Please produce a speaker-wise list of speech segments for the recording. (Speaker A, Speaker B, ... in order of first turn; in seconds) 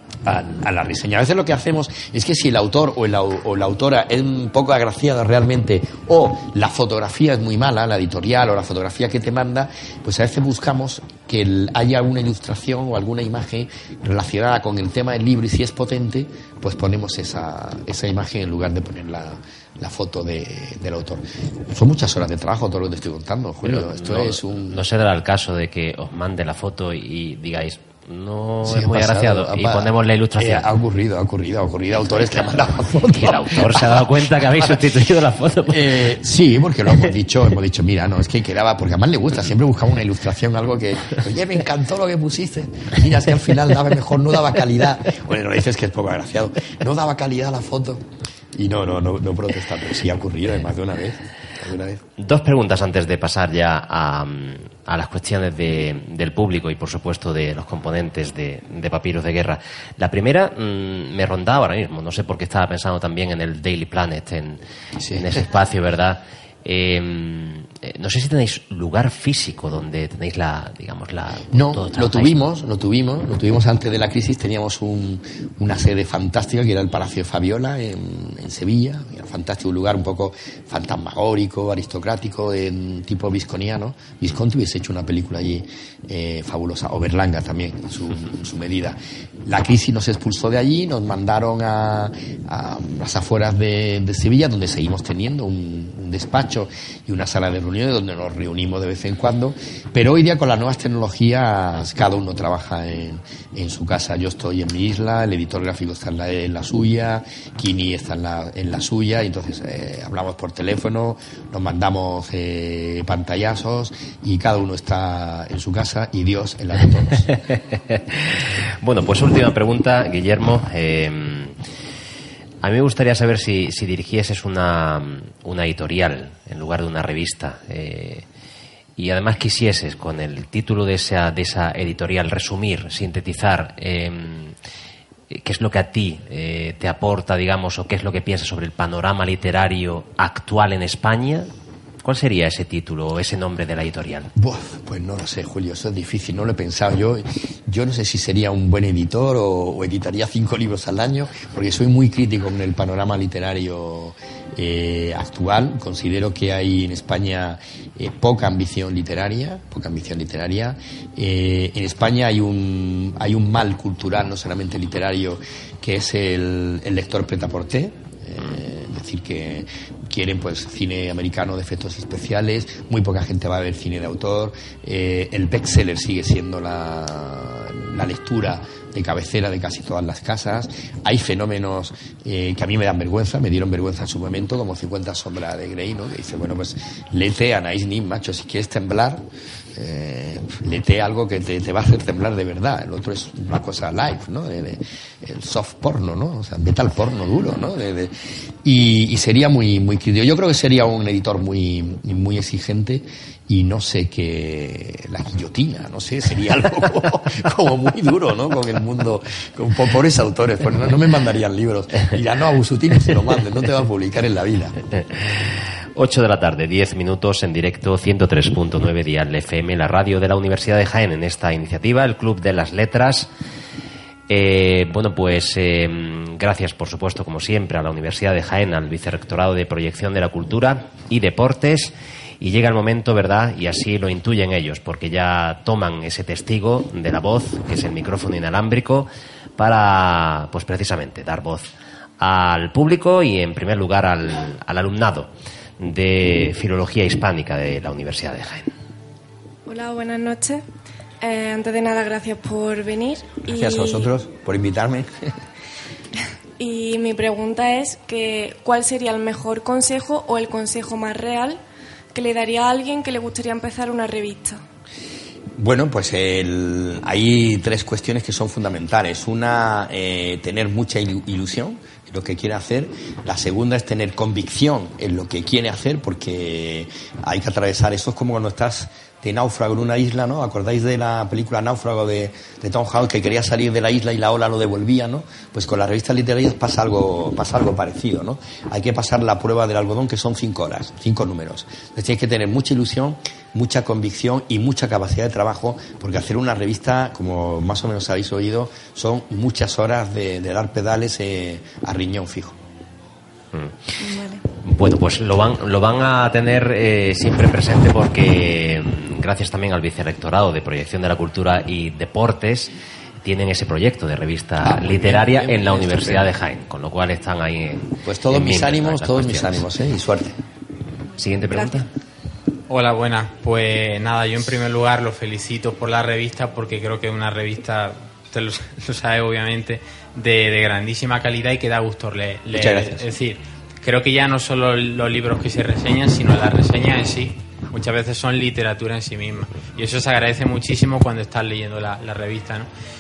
Speaker A: 0.2-24.8, 28.6-34.8, 35.7-52.0, 65.0-65.3, 71.5-117.3, 144.4-198.1, 198.6-214.8, 253.5-255.3, 265.6-302.6, 314.6-316.3, 318.0-320.4, 332.5-333.1
Speaker B: 23.6-30.7, 33.1-36.0, 52.2-64.6, 65.1-72.3, 117.9-121.6, 122.6-128.2, 129.0-134.6, 135.3-141.5, 142.0-144.3, 215.1-223.3, 224.3-248.7, 303.5-303.9, 304.6-312.7, 313.2-319.6, 321.2-321.9
Speaker C: 249.7-250.6, 251.2-254.1, 256.6-261.6, 262.1-264.6, 304.0-304.4
Speaker D: 322.7-342.7